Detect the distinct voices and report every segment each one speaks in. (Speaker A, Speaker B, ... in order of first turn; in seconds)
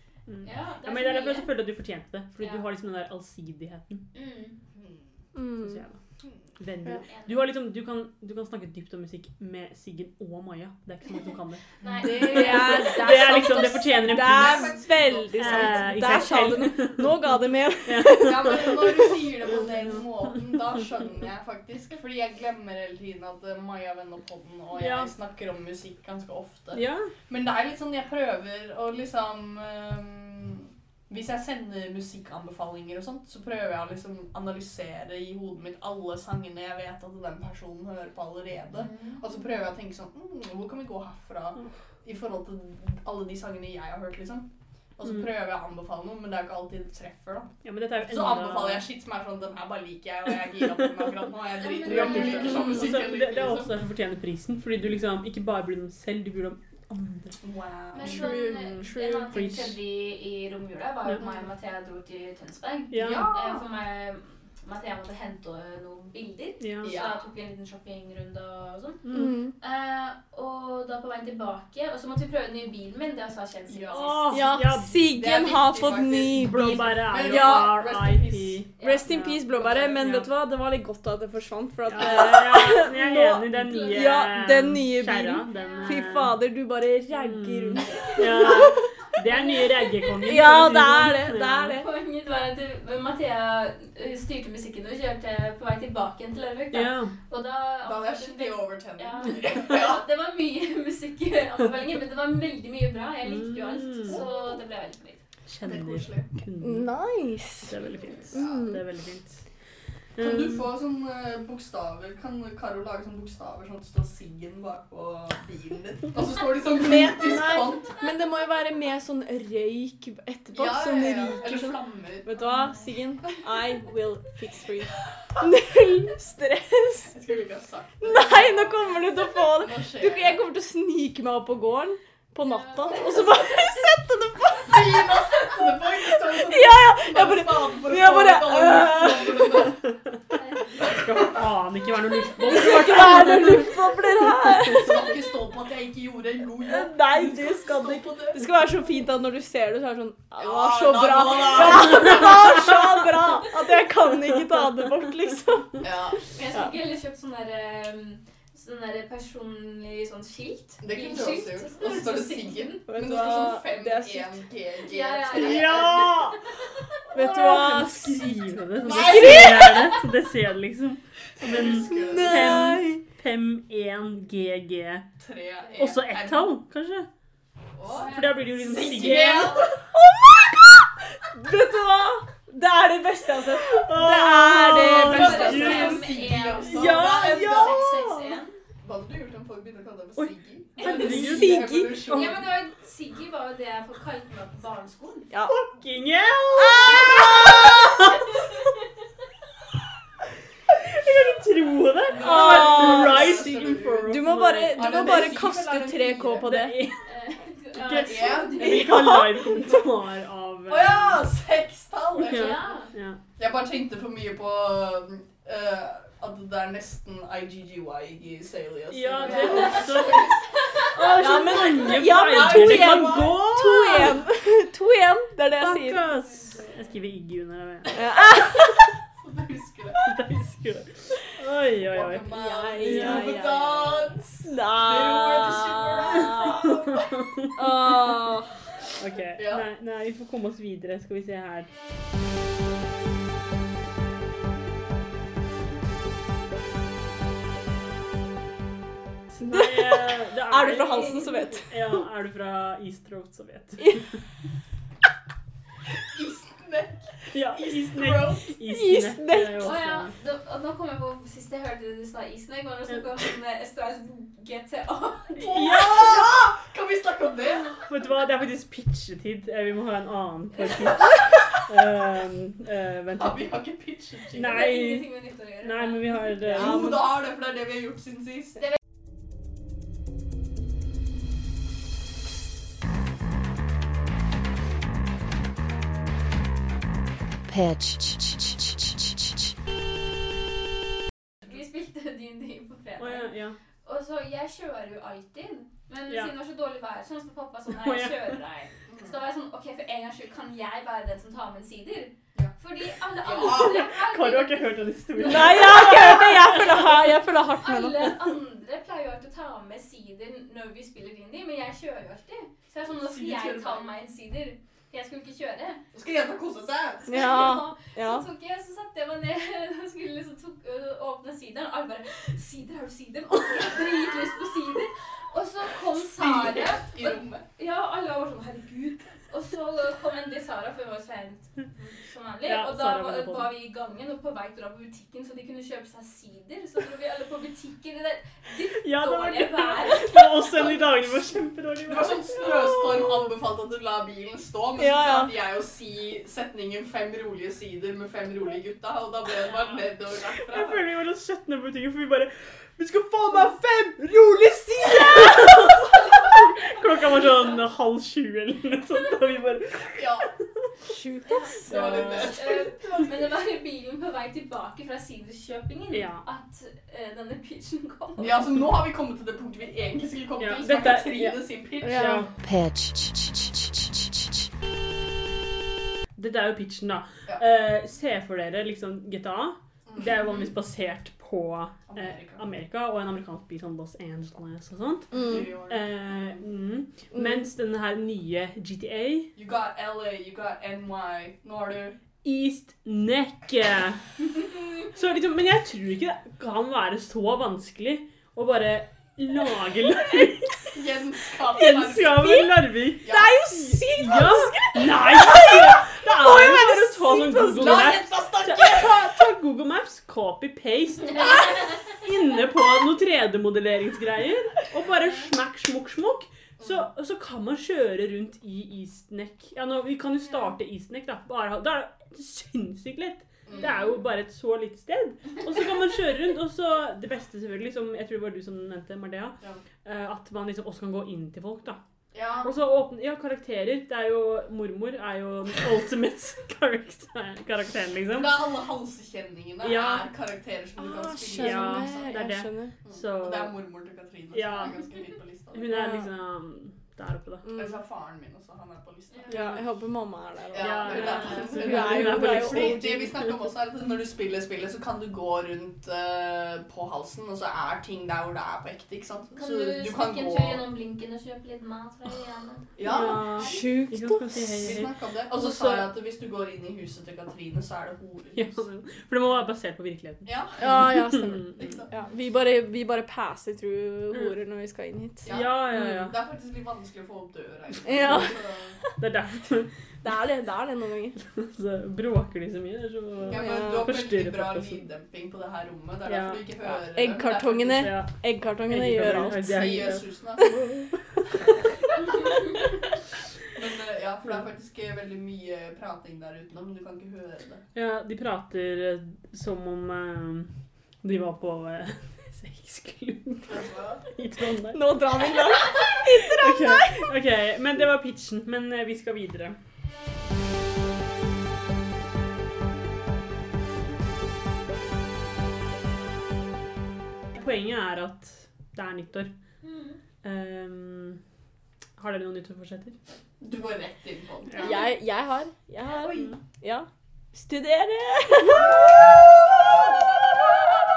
Speaker A: 0.3-4.1, 5.6-6.0, 6.6-19.0, 19.6-20.5, 24.7-25.1, 26.7-27.1, 45.0-45.3, 47.6-48.9, 50.8-51.1, 51.8-57.4, 58.0-59.8, 62.9-63.3, 66.6-66.9, 69.0-69.4, 73.9-75.1, 76.3-80.3, 81.9-86.4, 87.1-91.8, 96.7-97.2, 103.2-104.2, 105.5-106.9, 107.6-109.6, 110.2-110.7, 140.8-144.9, 151.8-152.1, 165.3-166.4, 167.1-175.1, 175.8-177.1, 178.0-179.6, 183.7-188.2, 190.8-192.0, 195.5-198.6, 200.7-205.4, 206.4-207.1, 207.7-211.3, 212.2-213.2, 218.9-224.2, 225.6-228.0, 230.0-233.4, 236.3-237.6, 239.0-241.7, 249.3-254.2, 257.3-260.1, 265.4-266.3, 267.8-273.5, 274.3-277.0, 293.0-293.6, 297.7-298.4, 303.5-306.9, 332.4-333.5, 338.8-342.7, 350.5-360.3, 361.8-362.2, 365.9-366.2, 370.4-372.3, 376.2-389.3, 392.2-394.1, 394.9-400.8, 401.5-431.8, 432.4-438.5, 439.6-440.1, 441.4-443.6, 444.3-444.8, 445.5-447.5, 450.6-453.3, 462.8-465.9, 468.4-471.8, 475.3-476.2, 478.0-478.3, 479.0-479.7, 481.3-484.8, 486.1-486.8, 487.6-490.1, 497.8-504.9, 505.9-509.6, 517.4-519.3, 520.2-521.2, 522.0-523.0, 524.5-524.8
Speaker B: 0.4-1.5, 2.4-2.6, 4.1-4.6, 7.1-7.4, 11.1-12.9, 38.8-39.2, 51.6-52.8, 57.9-69.0, 69.6-74.4, 78.8-79.1, 83.6-84.3, 85.5-86.1, 87.9-90.5, 91.8-105.2, 122.3-123.0, 132.4-133.8, 140.3-141.2, 156.3-162.8, 164.8-166.9, 177.9-179.8, 184.8-188.6, 190.8-191.3, 192.0-195.3, 207.0-209.0, 212.2-212.9, 219.2-220.2, 250.9-251.5, 259.6-265.4, 274.4-276.2, 291.5-306.3, 307.6-315.8, 317.1-340.8, 361.3-368.4, 449.1-449.4, 459.4-463.6, 519.6-520.0
Speaker C: 4.7-5.2, 11.8-12.6, 14.0-16.2, 18.1-53.7, 57.4-58.3, 61.2-61.5, 63.0-63.6, 66.8-67.3, 73.7-74.2, 75.1-78.6, 97.8-100.0, 104.1-104.6, 105.6-106.3, 107.8-108.8, 110.2-118.0, 120.5-122.3, 127.1-130.4, 134.6-139.9, 144.8-148.4, 150.4-152.7, 155.8-156.2, 160.8-166.2, 168.8-169.8, 171.4-172.8, 175.2-176.5, 177.7-179.8, 184.0-187.9, 188.8-192.5, 197.1-197.5, 202.1-206.5, 208.0-209.1, 210.7-212.8, 213.4-224.0, 229.1-230.2, 231.9-237.1, 239.4-239.6, 256.1-258.5, 265.4-267.9, 273.2-274.7, 276.4-278.7, 298.9-299.2, 303.2-303.9, 312.9-313.9, 315.9-317.6, 325.9-327.4, 341.9-350.9, 353.3-355.8, 360.0-360.3, 361.7-362.8, 368.2-372.3, 379.9-380.5, 381.9-382.4, 385.1-386.4, 389.4-392.0, 400.7-402.4, 403.0-403.3, 407.5-409.1, 416.6-416.9, 423.5-423.8, 432.1-432.5, 438.2-442.2, 442.8-445.9, 447.5-449.6, 450.5-460.6, 462.8-463.5, 464.6-468.7, 470.2-471.9, 475.2-478.8, 483.2-487.9, 489.3-490.6, 493.5-497.6, 503.5-504.1, 523.4-524.8, 528.5-530.0
Speaker D: 5.3-5.8, 12.0-19.1, 58.0-59.3, 69.1-69.5, 74.3-77.7, 78.8-88.9, 90.2-91.9, 106.6-107.8, 108.3-108.8, 116.8-127.2, 128.0-135.2, 136.2-139.7, 142.4-145.2, 146.6-156.0, 162.9-164.4, 167.1-169.9, 171.5-173.0, 179.9-186.1, 186.6-187.8, 190.8-192.2, 195.3-195.6, 196.6-197.8, 202.2-206.8, 208.6-209.8, 221.2-226.1, 227.9-228.8, 232.3-236.8, 237.6-238.6, 249.5-251.7, 258.7-259.7, 276.4-277.1, 305.2-308.1, 317.1-318.3, 344.8-345.3, 360.9-362.3, 371.8-372.3, 385.1-385.5, 387.1-387.4, 401.5-407.9, 440.8-442.7, 445.7-446.1, 447.4-447.8, 449.3-453.3, 463.2-464.8, 470.6-475.3, 477.8-478.9, 480.0-481.2, 483.3-483.9, 486.9-490.9, 504.7-507.1, 524.6-529.2
Speaker E: 287.5-288.6, 372.4-373.7